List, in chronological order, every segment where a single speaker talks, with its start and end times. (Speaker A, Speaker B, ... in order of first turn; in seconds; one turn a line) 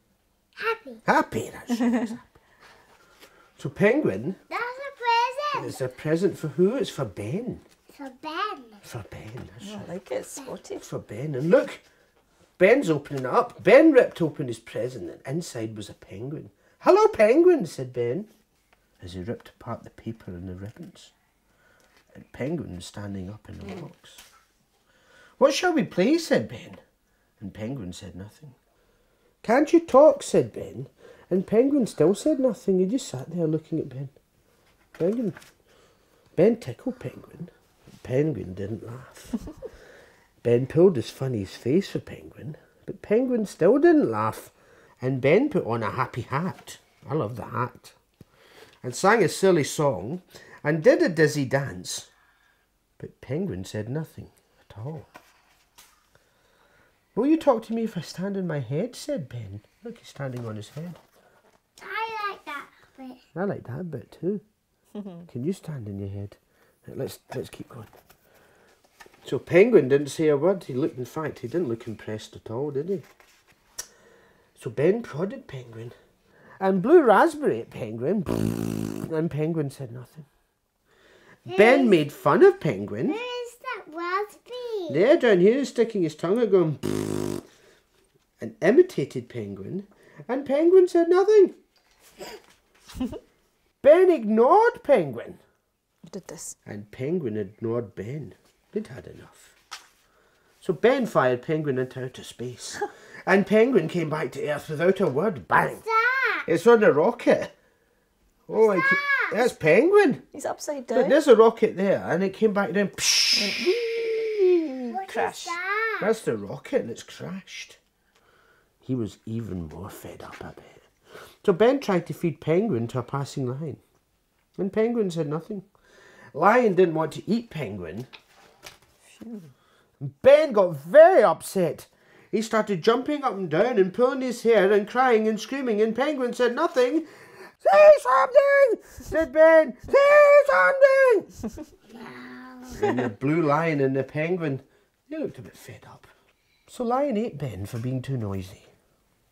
Speaker A: 0.6-1.0
Speaker B: 1.0-2.4
Speaker B: 3.6-4.4
Speaker A: 4.5-5.7
Speaker B: 5.5-7.6
Speaker A: 7.9-8.8
Speaker B: 8.8-9.9
Speaker C: 9.6-10.8
Speaker B: 10.8-11.8
Speaker B: 12.6-18.3
Speaker B: 19.0-21.1
Speaker B: 22.1-24.2
Speaker B: 25.4-26.8
Speaker B: 27.4-28.6
Speaker B: 29.4-34.1
Speaker B: 35.0-35.4
Speaker B: 36.4-39.4
Speaker B: 40.4-47.9
Speaker B: 48.8-52.1
Speaker B: 53.0-55.1
Speaker B: 57.1-61.0
Speaker A: 61.8-63.2
Speaker B: 63.3-64.4
Speaker B: 65.3-67.9
Speaker B: 69.2-73.0
Speaker B: 74.5-76.0
Speaker B: 76.6-80.3
Speaker B: 81.4-83.2
Speaker A: 81.5-82.0
Speaker A: 83.1-85.0
Speaker B: 84.9-87.4
Speaker B: 88.4-91.5
Speaker B: 93.8-95.4
Speaker C: 96.0-96.5
Speaker B: 96.7-99.5
Speaker B: 100.6-105.8
Speaker A: 105.9-106.4
Speaker B: 106.4-107.5
Speaker B: 108.5-110.2
Speaker A: 108.6-109.4
Speaker C: 110.3-111.2
Speaker B: 110.9-114.3
Speaker C: 113.3-115.6
Speaker A: 114.9-116.1
Speaker B: 116.0-117.8
Speaker B: 118.8-120.9
Speaker B: 121.4-123.8
Speaker B: 124.6-125.7
Speaker B: 126.3-128.1
Speaker C: 129.1-129.5
Speaker B: 130.0-137.1
Speaker B: 137.6-141.3
Speaker A: 141.9-142.7
Speaker B: 142.7-146.1
Speaker B: 146.7-148.7